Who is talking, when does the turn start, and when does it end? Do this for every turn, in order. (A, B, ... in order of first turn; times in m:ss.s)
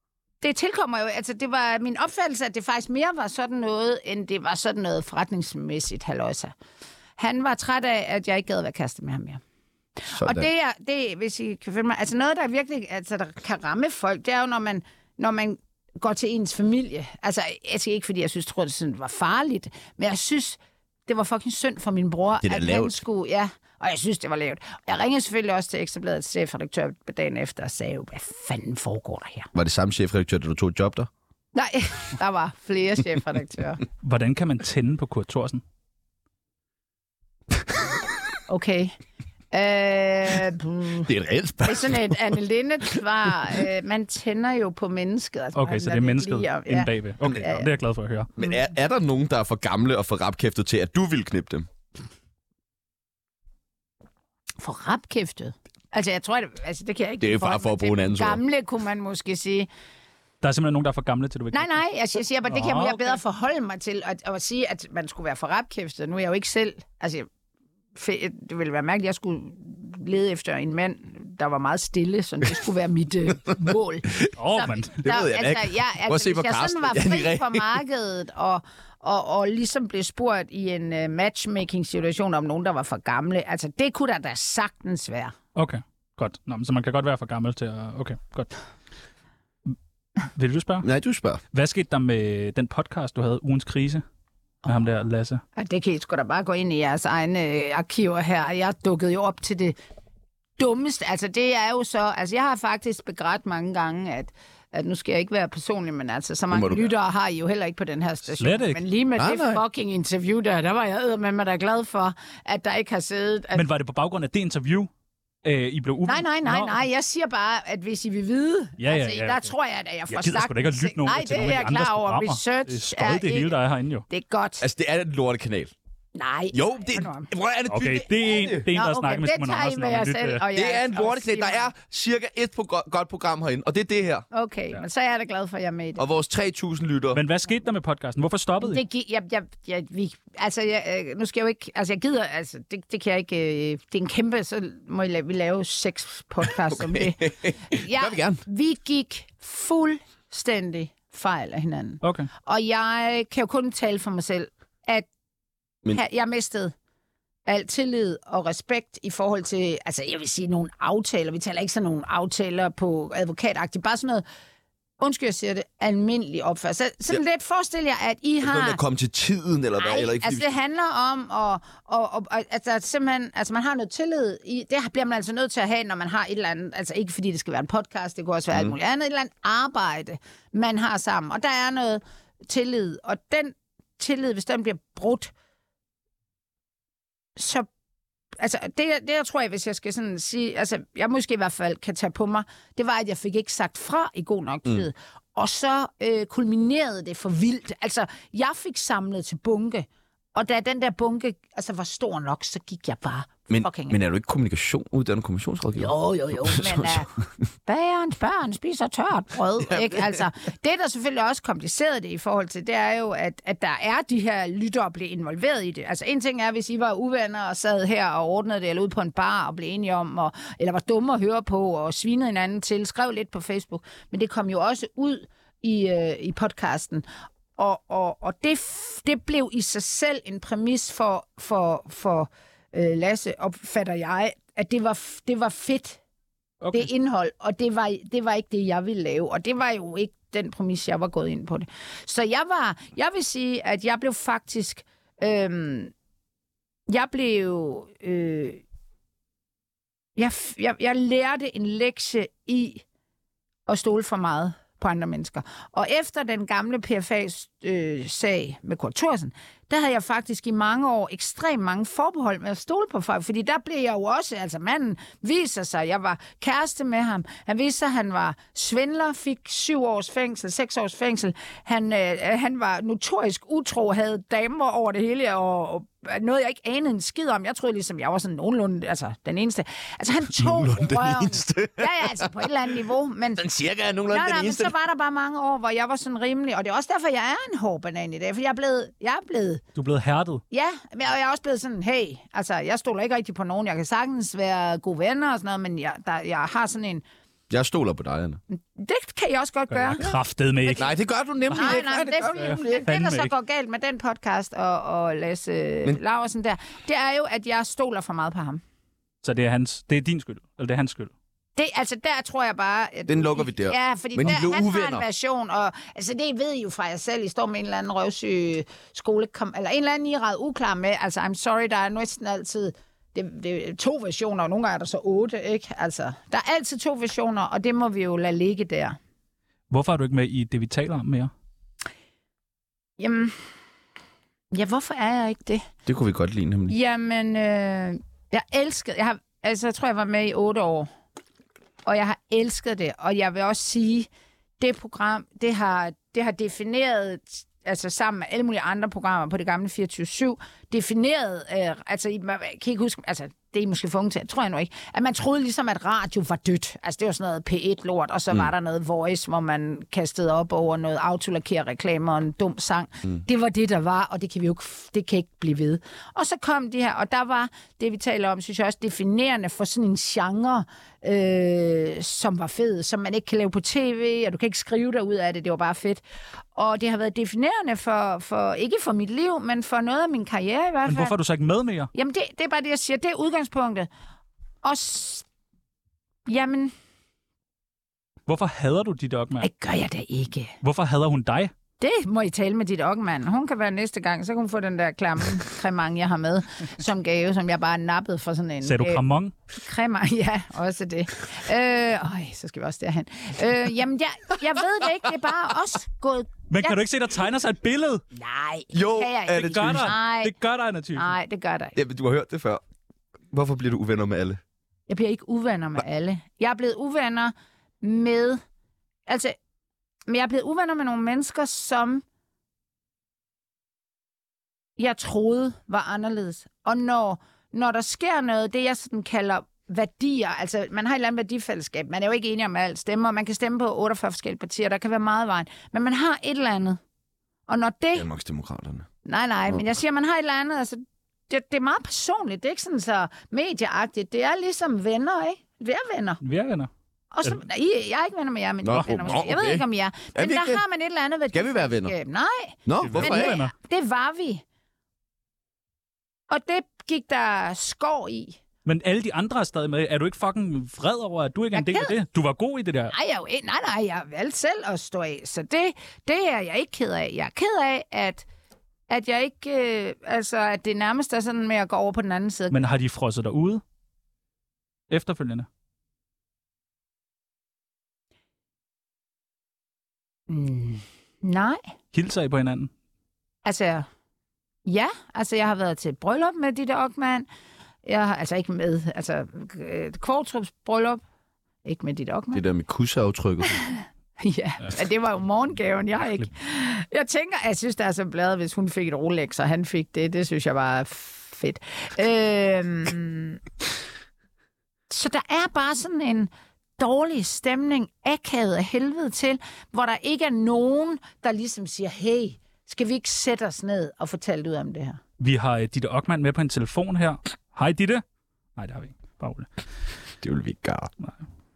0:00.4-0:06.5 A
0:07.2-0:09.4 A
0:10.0-0:29.5 A
0:10.1-0:10.5 B
0:22.4-0:23.0 B
0:29.5-0:31.1 B
0:31.5-0:33.8 A
0:34.0-0:35.6 C
0:38.5-0:38.9 A
0:39.5-0:41.1 A
0:41.0-0:42.4 B
0:41.6-0:47.7 A
0:45.5-0:48.3 C
0:48.4-0:51.7 B
0:54.6-0:59.7 A
0:57.2-0:58.4 B
1:00.4-1:01.8 C
1:01.5-1:07.3 A
1:02.5-1:03.1 C
1:07.9-1:25.4 A
1:14.4-1:15.0 C
1:15.0-1:17.8 B
1:25.5-1:28.5 C
1:30.3-1:30.9 C
1:30.8-1:31.4 B
1:31.5-1:34.0 C
1:34.7-1:35.4 C
1:35.6-1:39.8 A
1:40.6-1:53.6 A
1:46.5-1:46.9 B
1:48.3-1:48.8 C
1:49.2-1:49.6 B
1:53.5-1:54.9 C
1:55.4-1:56.8 C
1:56.0-2:03.5 A
1:58.8-1:59.5 C
2:00.1-2:04.0 C
2:04.1-2:04.6 A
2:04.6-2:05.7 B
2:06.1-2:07.3 A
2:06.5-2:08.7 B
2:07.7-2:10.4 C
2:08.7-2:11.7 A
2:10.5-2:14.2 B
2:14.3-2:16.1 A
2:16.0-2:17.2 B
2:17.1-2:18.8 C
2:18.6-2:35.1 A
2:26.7-2:28.4 B
2:32.0-2:32.3 C
2:35.9-2:36.7 A
2:37.5-2:44.2 A
2:45.0-2:48.8 A
2:48.4-2:50.5 B
2:49.8-3:05.3 A
3:07.4-3:07.7 A
3:08.4-3:24.0 A
3:23.5-3:27.2 B
3:25.8-3:27.1 A
3:27.6-3:56.0 A
3:29.6-3:30.2 B
3:56.6-3:56.9 C
3:56.7-4:05.9 A
4:06.9-4:08.6 A
4:10.2-4:12.8 A
4:13.7-4:43.4 A
4:40.3-4:42.5 B
4:43.4-4:44.7 B
4:44.1-4:49.6 A
4:49.8-4:50.4 C
4:50.5-4:57.0 A
4:57.5-4:58.4 B
4:58.5-5:00.1 A
4:59.7-5:00.9 C
5:00.8-5:02.8 B
5:01.5-5:08.6 A
5:01.5-5:01.8 C
5:02.3-5:03.3 C
5:09.2-5:11.1 C
5:11.6-5:29.0 A
5:13.1-5:15.0 B
5:29.7-5:31.3 C
5:33.0-5:33.4 A
5:34.5-5:35.7 A
5:35.8-5:36.8 B
5:36.7-5:40.9 A
5:41.8-5:44.1 A
5:44.6-6:16.0 A
6:16.5-6:21.2 A
6:20.8-6:21.9 C
6:21.9-6:23.9 A
6:24.6-6:25.2 A
6:26.2-6:26.7 A
6:28.3-6:29.5 C
6:29.4-6:30.5 A
6:30.6-6:31.5 C
6:31.8-6:46.8 A
6:38.6-6:39.3 C
6:46.5-6:48.0 C
6:48.1-6:50.3 A
6:48.7-6:49.9 B
6:49.3-6:51.1 C
6:51.0-6:51.8 A
6:51.8-6:52.6 B
6:53.3-6:54.4 B
6:54.9-6:58.4 A
6:59.1-6:59.3 A
7:00.1-7:02.0 A
7:04.8-7:16.8 A
7:17.5-7:18.1 A
7:18.0-7:18.8 B
7:19.0-7:26.2 A
7:26.2-7:26.7 C
7:27.1-7:34.4 A
7:28.6-7:30.6 B
7:31.3-7:31.9 B
7:32.7-7:33.4 B
7:32.8-7:33.5 C
7:36.3-7:38.4 A
7:38.7-7:42.9 C
7:41.5-7:42.0 A
7:42.9-7:48.2 A
7:48.9-7:52.6 A
7:52.5-7:53.6 C
7:54.9-7:55.5 C
8:00.3-8:01.6 A
8:01.9-8:02.7 C
8:03.4-8:03.9 A
8:04.7-8:07.2 A
8:07.8-8:11.0 A
8:11.6-8:12.4 A
8:12.3-8:13.7 B
8:13.6-8:23.4 A
8:24.9-8:35.0 A
8:35.2-8:38.0 C
8:38.6-8:39.5 C
8:40.2-8:40.9 B